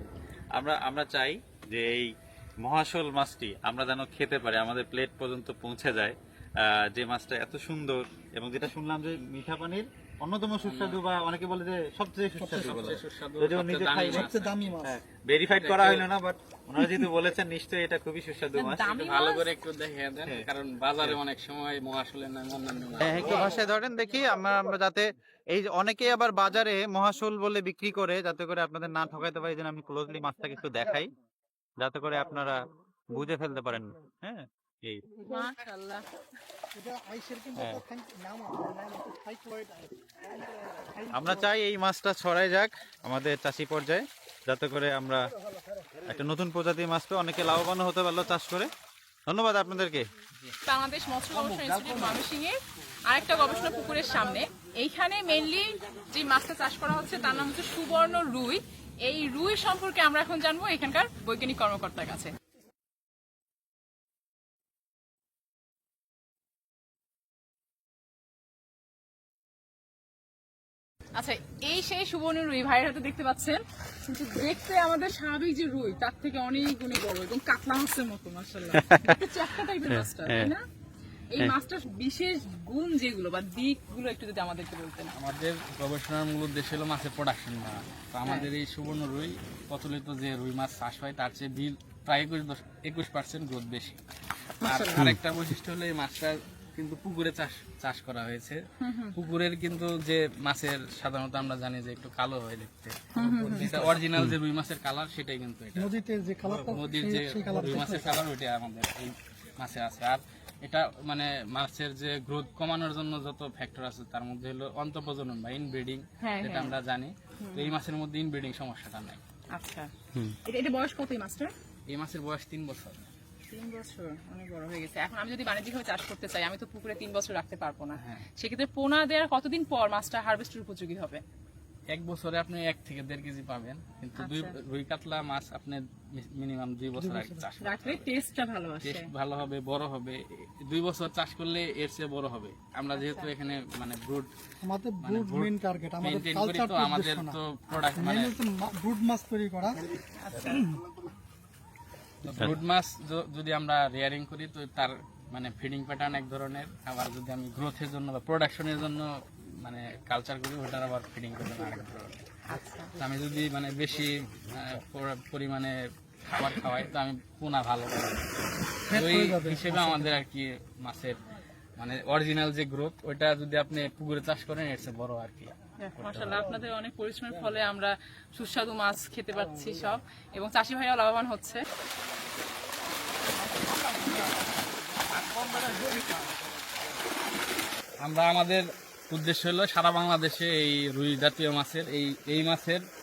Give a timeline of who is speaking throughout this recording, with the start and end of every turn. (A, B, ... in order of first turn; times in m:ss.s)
0:00.5-0:18.8 A
0:10.6-0:11.0 B
0:12.4-0:12.8 C
0:12.5-0:14.7 B
0:14.1-0:15.0 C
0:15.5-0:16.1 B
0:18.6-0:19.5 D
0:18.8-0:23.6 B
0:23.0-0:31.1 A
0:31.8-0:35.1 A
0:35.2-0:36.1 D
0:36.8-0:39.9 C
0:40.8-0:41.5 C
0:41.1-0:45.3 A
0:46.1-0:48.7 A
0:49.3-0:50.1 A
0:50.7-0:52.6 D
0:51.4-0:52.1 A
0:53.1-1:02.3 D
1:11.2-1:20.6 D
1:18.7-1:20.5 A
1:21.3-1:25.1 D
1:25.2-1:34.0 B
1:28.2-1:28.5 D
1:34.6-1:35.1 D
1:34.6-1:38.6 B
1:38.8-1:39.1 D
1:39.1-1:43.0 B
1:43.2-1:43.8 D
1:43.2-1:44.2 C
1:43.6-1:45.9 B
1:45.8-1:48.2 C
1:46.5-1:59.2 B
1:56.2-1:56.8 D
1:57.4-1:57.8 D
1:59.5-2:01.5 D
2:01.9-2:03.0 B
2:03.5-2:11.2 D
2:08.0-2:08.3 B
2:11.9-2:18.1 B
2:14.2-2:14.5 D
2:17.0-2:17.5 C
2:17.6-2:19.1 D
2:18.8-2:24.3 B
2:23.0-2:23.3 D
2:24.6-2:27.4 C
2:25.0-2:25.5 B
2:26.0-2:28.4 B
2:28.0-2:29.8 C
2:30.1-2:30.6 D
2:32.2-2:42.1 B
2:42.5-2:43.0 D
2:43.0-2:48.3 B
2:48.9-2:50.2 C
2:48.9-2:51.2 B
2:51.8-2:56.5 B
2:55.8-3:01.6 D
3:03.6-3:04.4 D
3:05.3-3:06.1 B
3:05.4-3:06.0 D
3:08.0-3:12.8 B